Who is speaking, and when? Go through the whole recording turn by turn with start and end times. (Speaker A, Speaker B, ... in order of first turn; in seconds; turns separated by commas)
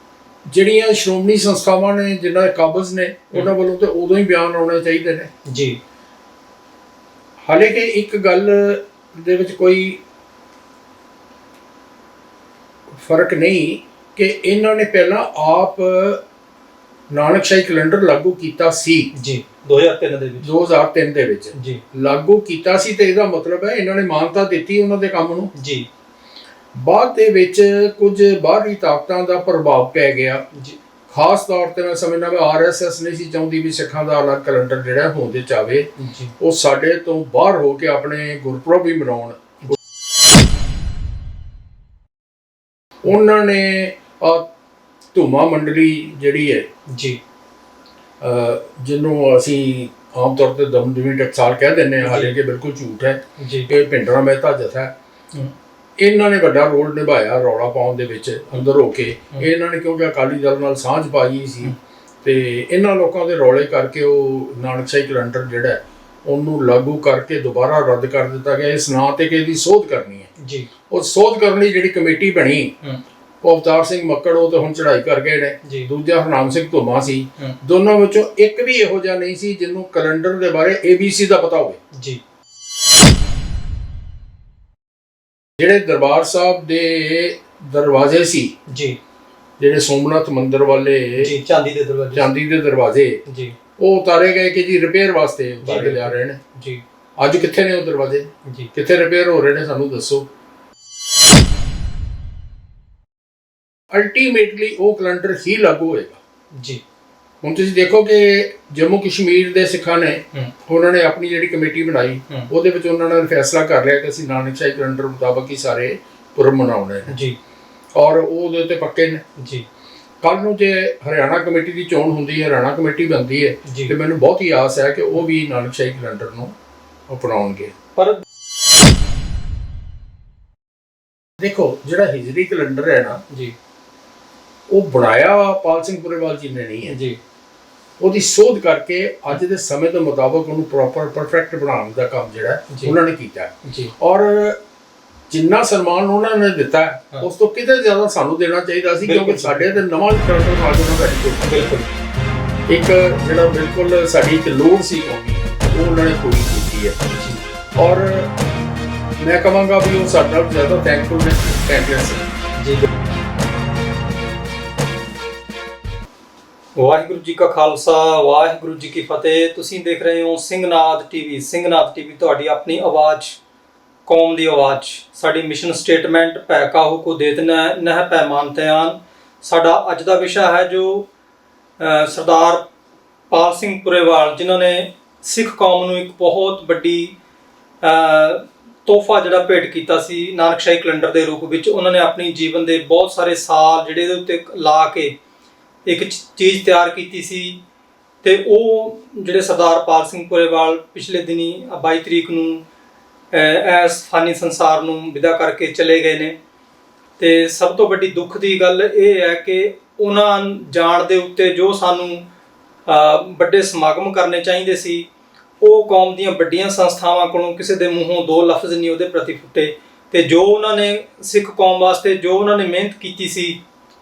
Speaker A: 0.5-5.3, Speaker B: 5.4-5.8, Speaker A: 7.5-10.0, Speaker A: 12.9-16.2, Speaker A: 17.1-19.1, Speaker B: 19.1-20.5, Speaker A: 20.4-25.5, Speaker B: 21.5-21.8, Speaker B: 25.5-25.9, Speaker A: 26.7-30.4, Speaker B: 30.5-30.8, Speaker A: 31.1-39.5, Speaker B: 36.0-36.3, Speaker A: 43.0-44.4, Speaker A: 45.1-46.6, Speaker B: 46.9-47.2, Speaker A: 48.2-54.9, Speaker B: 52.0-52.4, Speaker B: 53.4-53.7, Speaker A: 56.0-70.3, Speaker B: 70.4-70.7, Speaker A: 70.9-72.7, Speaker A: 73.4-81.8, Speaker B: 81.9-82.2, Speaker A: 85.6-88.5, Speaker B: 88.7-89.0, Speaker A: 89.6-91.3, Speaker B: 91.2-92.3, Speaker A: 92.1-93.2, Speaker B: 93.2-93.5, Speaker A: 93.8-96.4, Speaker B: 95.6-96.8, Speaker A: 97.2-100.2, Speaker B: 98.4-98.7, Speaker A: 103.9-106.2, Speaker B: 106.5-106.8, Speaker A: 107.4-117.1, Speaker B: 117.1-117.4, Speaker A: 117.9-119.2, Speaker B: 119.4-119.7, Speaker A: 120.2-126.5, Speaker B: 123.6-123.9, Speaker A: 127.1-127.7, Speaker B: 128.0-128.2, Speaker A: 131.4-133.2, Speaker B: 133.3-133.5, Speaker A: 134.7-136.9, Speaker B: 136.8-137.2, Speaker A: 138.0-144.6, Speaker B: 142.7-142.9, Speaker B: 143.6-143.9, Speaker A: 145.3-151.6, Speaker B: 149.0-149.8, Speaker B: 151.4-151.9, Speaker A: 152.7-157.0, Speaker B: 157.1-157.4, Speaker A: 157.8-158.3, Speaker A: 159.2-162.3, Speaker B: 162.6-162.9, Speaker B: 166.7-173.4, Speaker B: 174.1-181.1, Speaker B: 181.8-182.7, Speaker B: 183.3-187.2, Speaker B: 187.8-195.1, Speaker B: 195.8-197.6, Speaker B: 198.2-202.6, Speaker B: 203.3-206.3, Speaker B: 207.2-212.2, Speaker B: 212.8-215.1, Speaker B: 215.6-223.6